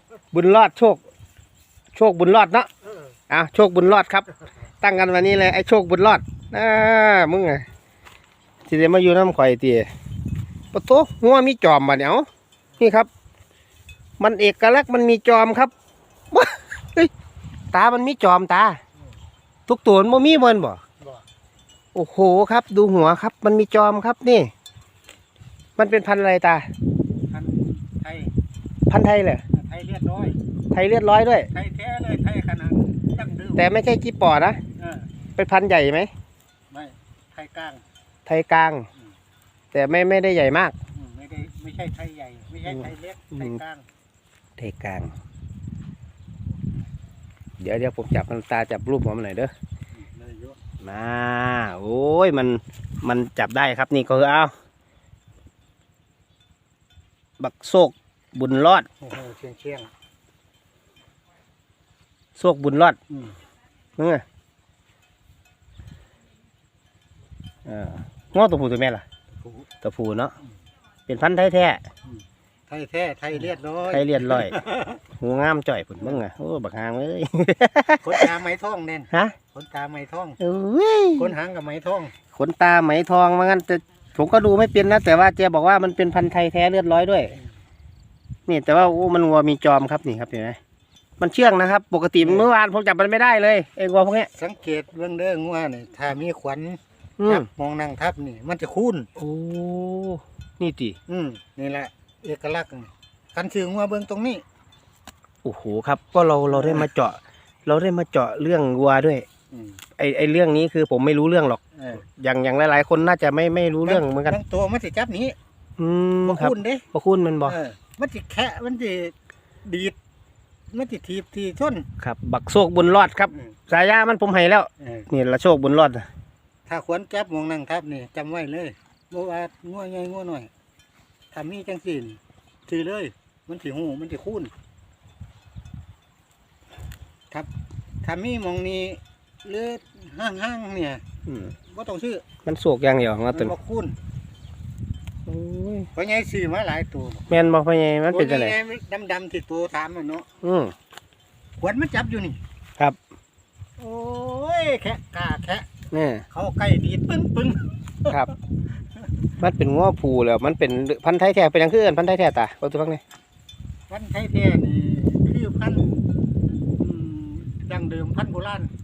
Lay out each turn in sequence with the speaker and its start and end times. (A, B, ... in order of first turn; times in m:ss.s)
0:00.3-0:01.0 A
0:01.9-0:02.7 A
0:02.8-0:03.2 B
0:03.3-0:04.3 A
0:04.8-0:07.7 A
0:08.7-0:09.9 A
0:10.7-0:12.3 A
0:12.8-0:13.1 A
0:14.2-0:15.7 A
0:16.3-0:17.1 A
0:17.7-0:18.8 A
0:19.7-0:20.8 A
0:21.0-0:21.2 B
0:21.9-0:24.5 A
0:25.8-0:26.7 A
0:27.3-0:28.3 B
0:28.9-0:29.4 A
0:29.5-0:30.4 B
0:30.7-0:31.5 A
0:31.5-0:33.7 B
0:33.6-0:34.6 A
0:34.8-0:35.1 B
0:35.4-0:36.1 A
0:36.7-0:37.8 B
0:38.3-0:38.9 A
0:39.7-0:40.8 A
0:40.9-0:43.8 B
0:44.6-0:45.1 A
0:47.6-0:49.5 A
0:49.9-0:50.6 B
0:50.8-0:54.5 A
0:57.4-0:58.9 A
0:59.0-0:59.9 B
1:02.4-1:03.0 A
1:03.1-1:03.4 B
1:04.0-1:04.2 A
1:07.6-1:09.0 A
1:09.3-1:09.7 B
1:09.8-1:10.3 A
1:11.1-1:11.8 A
1:12.1-1:15.0 B
1:13.9-1:14.6 A
1:15.2-1:18.3 A
1:18.0-1:20.4 B
1:19.1-1:19.4 A
1:20.4-1:21.3 A
1:21.2-1:22.1 B
1:22.3-1:27.4 A
1:28.5-1:30.6 A
1:31.2-1:34.3 A
1:32.2-1:32.5 B
1:34.3-1:39.1 B
1:37.2-1:37.5 A
1:39.2-1:41.0 A
1:41.1-1:44.4 B
1:45.4-1:49.3 A
1:46.5-1:46.9 B
1:49.5-1:49.8 B
1:50.0-1:54.4 A
1:51.8-1:52.0 B
1:53.8-1:55.4 B
1:55.8-1:57.6 A
1:56.2-1:56.8 B
1:57.4-2:00.0 B
2:00.7-2:01.9 B
2:02.0-2:06.1 A
2:04.8-2:05.1 B
2:06.7-2:10.5 B
2:11.3-2:14.5 B
2:18.0-2:21.0 B
2:21.3-2:21.5 A
2:21.6-2:22.2 B
2:22.4-2:23.5 A
2:23.3-2:24.0 B
2:25.3-2:25.9 A
2:25.9-2:27.3 B
2:27.3-2:28.6 A
2:28.1-2:30.3 B
2:30.4-2:30.7 A
2:31.6-2:32.4 B
2:33.8-2:35.7 B
2:35.9-2:36.2 A
2:36.3-2:38.2 B
2:39.4-2:43.0 A
2:43.9-2:46.1 B
2:46.8-2:48.7 B